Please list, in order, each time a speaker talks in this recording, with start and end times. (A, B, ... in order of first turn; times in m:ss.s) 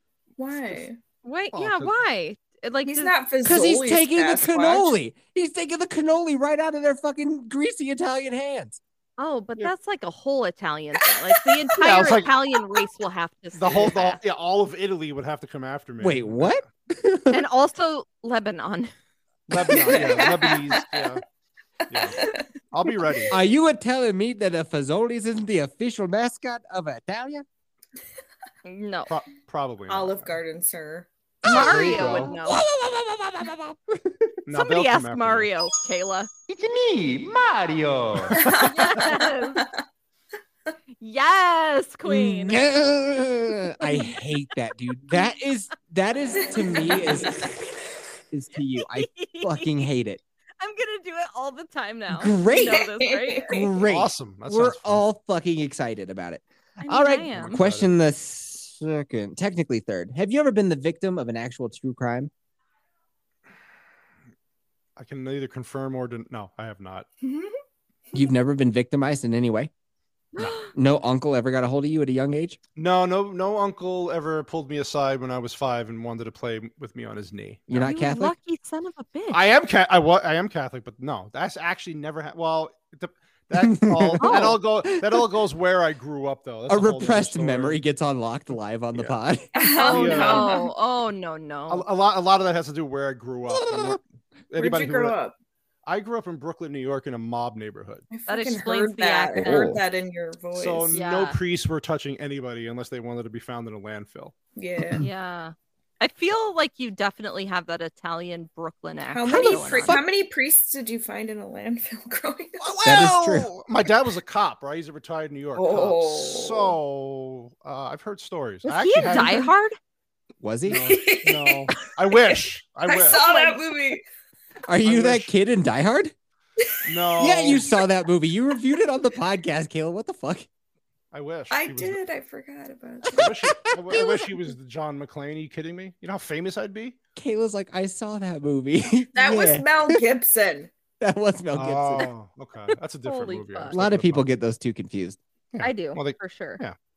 0:00.4-0:01.0 A
0:01.2-0:03.1 B
0:01.5-0:02.0 C
0:02.9-0:04.9 A
0:03.4-0:08.8 D
0:09.2-0:14.2 B
0:11.8-0:12.3 C
0:13.6-0:16.6 C
0:16.0-0:17.4 D
0:17.3-0:18.9 B
0:19.5-0:21.2 C
0:19.6-0:21.0 A
0:21.9-0:23.3 C
0:21.9-0:23.3 A
0:23.3-0:27.4 D
0:28.6-0:29.1 B
0:29.1-0:30.4 C
0:29.9-0:31.1 A
0:31.4-0:32.4 C
0:31.4-0:32.6 B
0:31.5-0:34.3 D
0:34.5-0:35.5 C
0:34.5-0:36.3 B
0:36.5-0:38.4 E
0:38.2-0:39.0 C
0:38.4-0:39.6 A
0:38.6-0:39.7 B
0:41.0-0:42.6 B
0:42.1-0:47.5 D
0:46.5-0:47.5 A
0:48.3-0:50.2 D
0:49.0-0:49.7 B
0:50.6-0:53.7 B
0:52.1-0:52.8 D
0:52.5-0:53.6 A
0:53.5-1:02.3 D
0:53.8-0:55.0 C
0:56.8-0:57.6 B
0:57.3-0:57.9 C
1:05.0-1:07.1 C
1:07.2-1:07.5 A
1:08.1-1:09.7 D
1:10.4-1:10.7 B
1:10.7-1:12.6 D
1:12.8-1:17.8 C
1:17.7-1:18.4 D
1:17.7-1:19.4 B
1:19.3-1:27.8 C
1:23.6-1:25.2 D
1:24.2-1:24.6 B
1:26.7-1:29.5 D
1:29.6-1:30.7 A
1:29.7-1:31.9 B
1:29.8-1:30.5 C
1:31.7-1:35.2 C
1:33.5-1:34.0 D
1:34.6-1:35.3 A
1:35.9-1:38.1 C
1:38.1-1:41.0 A
1:38.3-1:39.8 B
1:39.3-1:39.8 D
1:40.5-1:44.3 C
1:40.9-1:41.4 B
1:44.6-1:45.0 A
1:45.0-1:49.9 B
1:49.1-1:52.6 A
1:49.3-1:50.0 D
1:52.6-1:59.4 C
1:52.8-1:53.5 D
1:55.6-1:56.8 A
1:58.6-1:59.8 B
1:59.1-1:59.5 A
2:00.4-2:00.9 D
2:00.6-2:03.2 C
2:00.8-2:04.0 A
2:03.1-2:03.6 B
2:04.7-2:06.1 D
2:04.8-2:05.3 C
2:06.8-2:07.6 C
2:07.2-2:07.8 A
2:07.2-2:10.5 D
2:11.1-2:12.0 C
2:11.5-2:14.4 A
2:13.1-2:17.0 C
2:13.4-2:13.9 D
2:17.2-2:19.7 D
2:19.2-2:20.7 A
2:21.0-2:22.1 D
2:21.5-2:24.3 C
2:23.0-2:23.8 B
2:23.7-2:25.2 D
2:25.5-2:26.8 C
2:25.6-2:26.6 B